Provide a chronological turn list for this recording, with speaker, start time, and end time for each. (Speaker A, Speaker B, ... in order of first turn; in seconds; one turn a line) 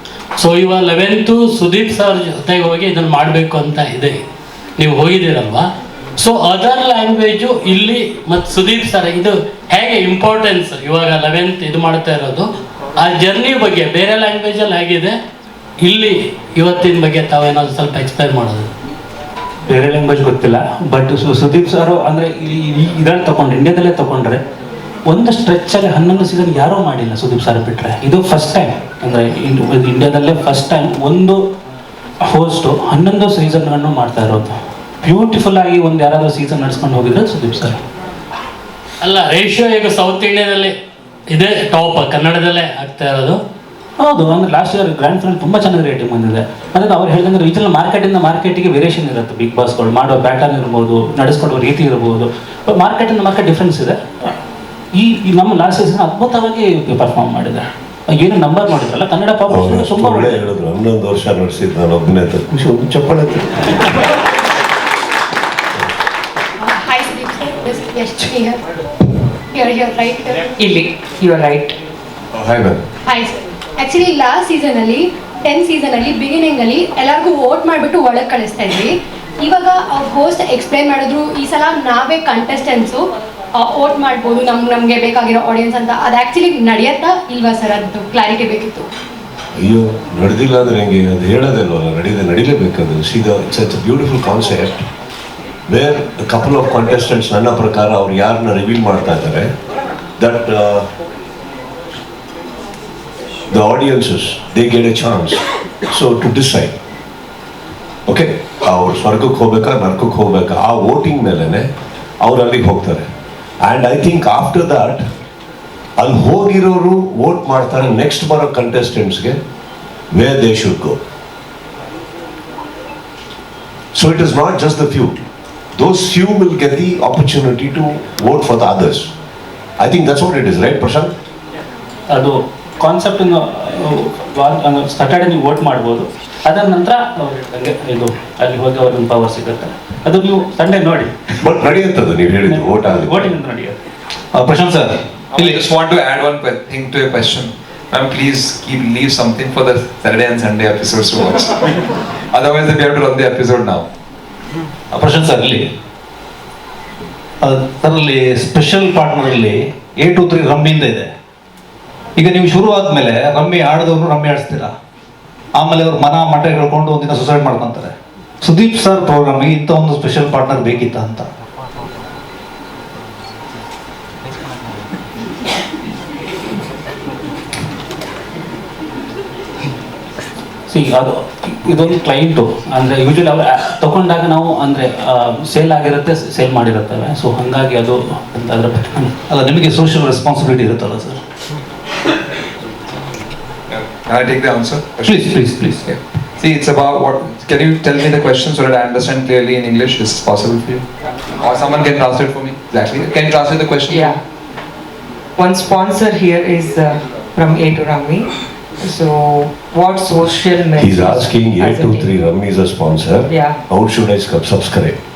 Speaker A: 0.4-4.2
Speaker A: 4.8-15.2
Speaker A: 15.8-18.7
Speaker B: 19.7-24.4
Speaker B: 25.1-31.5
Speaker B: 32.2-37.8
Speaker A: 39.0-40.8
Speaker A: 41.3-43.4
Speaker B: 44.0-54.3
Speaker B: 54.9-60.5
Speaker C: 59.5-63.8
Speaker D: 66.6-68.6
Speaker D: 69.5-70.4
Speaker E: 70.6-71.8
Speaker C: 72.3-72.8
Speaker D: 73.1-83.0
Speaker D: 83.5-88.9
Speaker C: 89.6-94.8
Speaker C: 95.7-99.5
Speaker C: 100.2-100.9
Speaker C: 103.5-106.7
Speaker C: 108.1-111.7
Speaker C: 112.2-113.0
Speaker C: 113.6-115.0
Speaker C: 116.0-119.4
Speaker C: 120.1-121.0
Speaker C: 123.9-125.2
Speaker C: 125.8-129.1
Speaker C: 129.8-131.1
Speaker B: 132.1-141.1
Speaker C: 141.4-143.3
Speaker B: 142.4-143.8
Speaker F: 144.3-145.7
Speaker G: 145.3-151.7
Speaker G: 152.3-153.8
Speaker F: 154.9-155.7
Speaker F: 157.4-161.1
Speaker F: 162.2-164.7
Speaker F: 165.6-171.3
Speaker B: 180.7-189.1
Speaker F: 189.3-191.2
Speaker G: 193.7-200.8
Speaker F: 195.0-195.9
Speaker G: 201.4-204.2
Speaker E: 203.9-204.2
Speaker E: 205.4-212.1
Speaker C: 210.8-215.0
Speaker E: 213.3-213.6